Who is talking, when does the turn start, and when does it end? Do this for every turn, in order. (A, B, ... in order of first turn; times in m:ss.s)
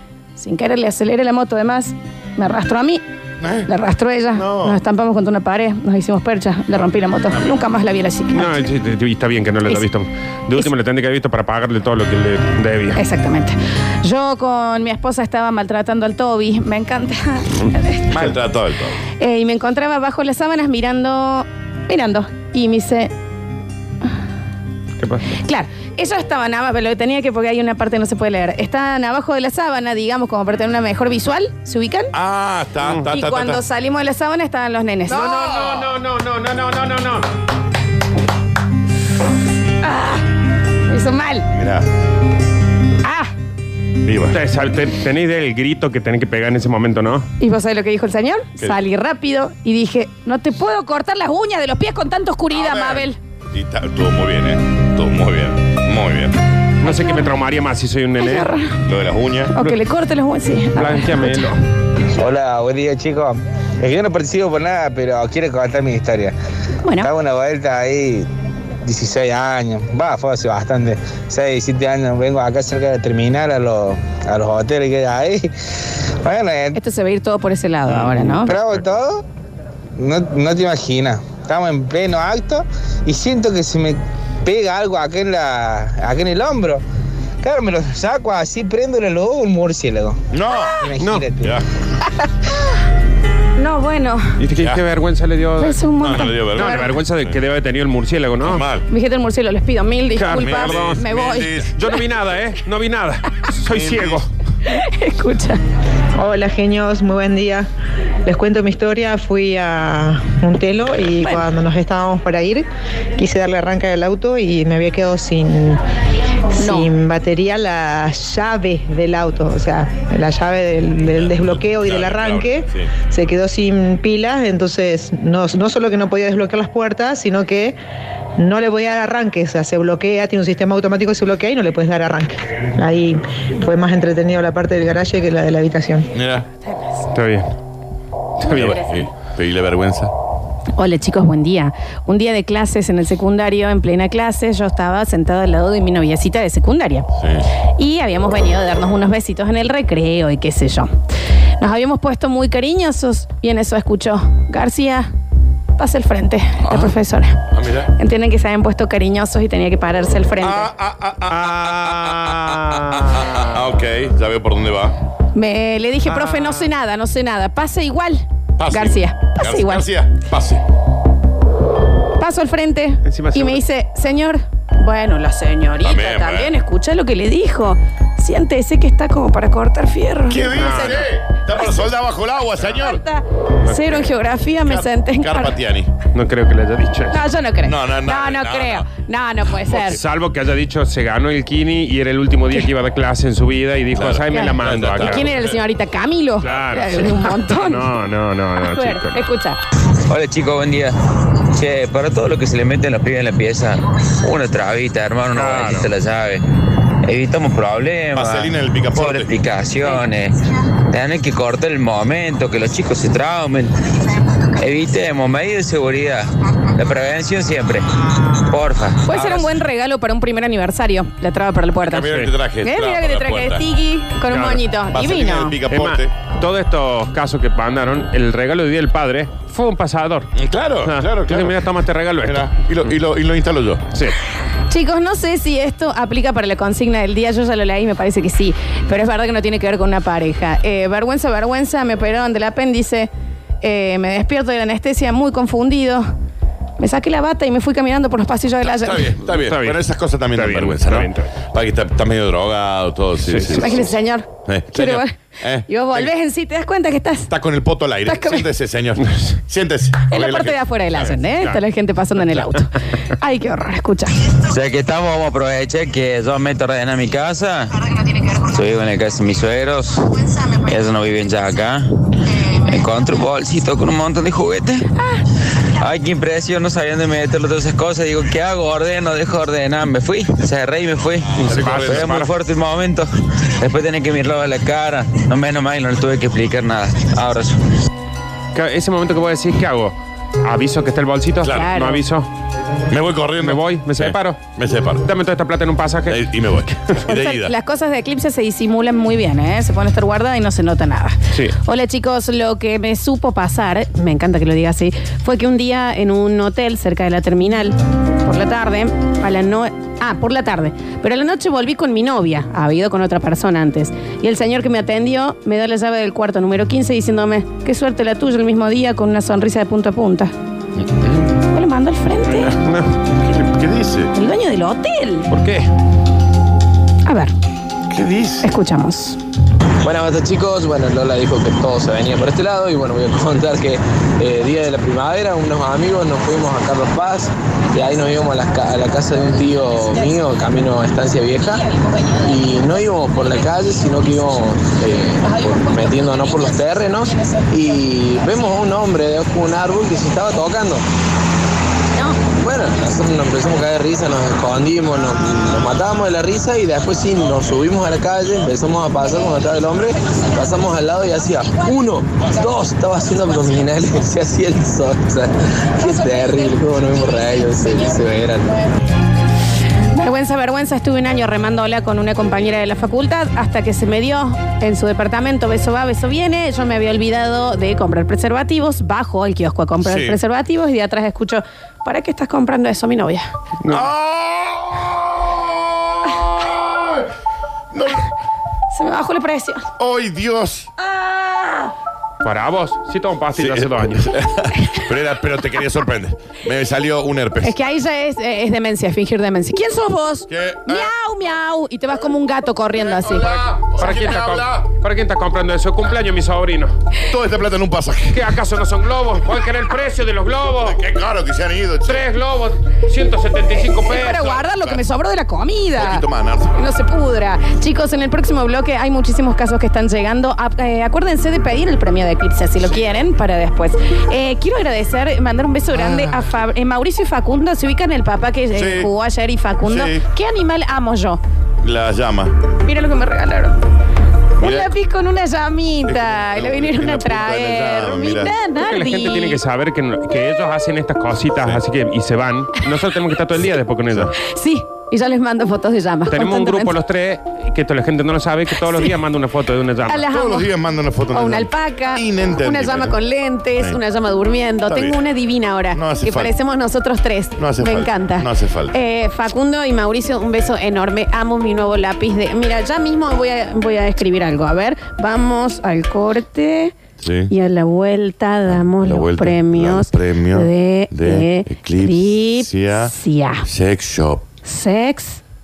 0:00.4-0:03.0 A
0:03.4-0:03.7 B
0:03.6-0:08.5 A
0:04.3-0:04.8 B
0:08.3-0:13.0 C
0:13.0-0:18.2 A
0:18.1-0:19.0 B
0:19.2-0:23.1 A
0:25.0-0:25.3 C
0:25.3-0:32.1 A
0:32.1-0:33.6 B
0:32.8-0:33.1 C
0:33.0-0:35.4 A
0:35.1-0:37.3 C
0:39.8-0:40.2 A
0:40.9-0:41.5 A
0:41.5-0:41.8 B
0:43.0-0:43.3 A
0:44.0-0:44.4 B
0:44.3-0:47.3 C
0:47.4-0:53.2 A
0:52.5-0:56.3 B
0:56.8-0:58.5 C
0:56.8-0:57.2 A
0:58.2-0:58.8 A
0:58.8-0:59.5 B
0:59.5-1:01.5 A
1:00.7-1:01.6 C
1:02.2-1:06.3 D
1:06.8-1:07.1 A
1:07.0-1:08.3 D
1:08.8-1:15.5 D
1:16.2-1:16.8 D
1:16.7-1:18.6 A
1:18.1-1:19.2 D
1:18.5-1:18.8 C
1:20.0-1:26.8 D
1:27.4-1:30.2 D
1:30.3-1:30.8 B
1:30.5-1:30.9 A
1:30.8-1:31.6 D
1:31.0-1:31.3 C
1:33.6-1:34.4 A
1:34.4-1:38.7 C
1:35.6-1:36.9 A
1:36.0-1:37.4 B
1:38.4-1:38.8 B
1:38.9-1:41.7 A
1:40.2-1:44.3 C
1:40.5-1:41.7 B
1:43.7-1:44.2 B
1:44.6-1:45.6 A
1:46.2-1:47.7 E
1:48.2-1:52.6 E
1:53.2-1:55.8 E
1:56.5-2:07.8 E
1:56.6-1:56.9 A
2:01.1-2:02.9 B
2:08.4-2:16.1 E
2:16.1-2:16.4 B
2:17.1-2:17.5 C
2:18.4-2:18.8 C
2:18.5-2:20.1 B
2:18.6-2:18.9 A
2:20.8-2:27.1 A
2:27.2-2:27.5 B
2:27.8-2:30.9 A
2:31.6-2:35.1 A
2:35.8-2:37.4 A
2:37.5-2:37.9 B
2:37.9-2:40.7 A
2:40.4-2:42.3 B
2:41.3-2:43.6 C
2:43.5-2:45.0 B
2:45.3-2:49.9 A
2:46.1-2:46.7 C
2:48.6-2:50.6 B
2:52.2-3:01.8 A
2:53.0-2:53.6 C
2:55.8-2:56.5 B
3:00.3-3:03.0 B
3:00.5-3:01.0 C
3:02.6-3:05.6 A
3:03.6-3:04.1 C
3:04.6-3:05.9 B
3:06.1-3:07.2 C
3:07.1-3:10.0 A
3:07.6-3:08.9 B
3:09.7-3:15.3 C
3:13.9-3:15.6 B
3:14.3-3:17.9 A
3:16.4-3:19.2 C
3:18.6-3:19.6 A
3:20.1-3:20.9 F
3:21.5-3:26.4 F
3:25.3-3:25.9 C
3:27.0-3:30.3 F
3:28.1-3:29.3 B
3:30.9-3:33.7 F
3:34.5-3:37.8 F
3:38.4-3:39.2 F
3:39.0-3:42.1 A
3:39.1-3:39.5 C
3:41.8-3:43.6 B
3:42.1-3:42.4 C
3:42.6-3:45.6 A
3:44.3-3:44.6 C
3:44.9-3:46.1 B
3:45.7-3:50.3 C
3:50.4-3:51.6 B
3:50.8-3:52.9 C
3:52.2-3:53.8 B
3:54.7-4:03.1 A
4:03.6-4:06.1 A
4:06.8-4:09.2 A
4:08.6-4:13.9 B
4:09.3-4:11.3 C
4:13.2-4:13.9 C
4:13.5-4:17.3 A
4:14.4-4:16.1 B
4:17.3-4:21.2 B
4:18.0-4:18.4 A
4:20.1-4:24.1 A
4:24.4-4:31.8 F
4:32.6-4:34.8 F
4:35.8-4:43.1 F
4:41.4-4:42.3 C
4:41.4-4:41.9 B
4:43.6-4:47.6 F
4:48.5-4:52.3 C
4:51.4-4:52.0 A
4:52.9-4:55.0 B
4:53.4-4:54.4 C
4:55.0-4:56.3 C
4:56.1-4:57.5 B
4:57.0-5:20.3 A
5:01.3-5:01.6 C
5:20.8-5:21.2 B
5:21.4-5:22.5 A
5:22.6-5:23.0 C
5:23.2-5:24.1 B
5:24.1-5:25.3 A
5:25.3-5:25.7 C
5:27.0-5:27.3 A
5:27.9-5:28.4 B
5:28.4-5:29.2 A
5:29.8-5:50.8 G
5:52.3-6:08.6 G
6:09.9-6:23.3 A
6:19.8-6:20.2 B
6:23.6-6:23.9 C
6:23.7-6:27.0 B
6:27.7-6:28.0 B
6:28.7-6:29.7 A
6:29.8-6:30.7 B
6:30.9-6:31.7 A
6:32.2-6:34.1 C
6:33.4-6:37.5 B
6:37.4-6:43.4 A
6:40.3-6:40.9 B
6:42.8-6:44.6 B
6:43.7-6:46.7 C
6:47.1-6:48.2 B
6:48.1-6:50.8 C
6:50.7-6:52.0 B
6:51.8-6:54.4 C
6:53.8-7:11.2 A
6:54.3-6:54.8 B
6:55.7-6:56.5 B
7:05.8-7:06.2 B
7:08.5-7:08.9 B
7:09.6-7:10.0 B
7:11.6-7:12.4 B
7:12.6-7:13.6 A
7:14.4-7:19.4 A
7:14.4-7:14.7 B
7:15.8-7:18.4 B
7:18.6-7:24.1 C
7:24.2-7:26.8 A
7:26.1-7:30.1 C
7:28.6-7:29.0 A
7:29.8-7:30.5 A
7:30.1-7:33.0 B
7:31.1-7:46.7 A
7:34.6-7:35.0 B
7:35.7-7:36.3 B
7:37.4-7:38.8 B
7:47.0-7:47.3 B
7:47.3-7:53.4 A
7:48.4-7:52.9 B
7:53.4-7:54.2 B
7:54.4-7:55.2 A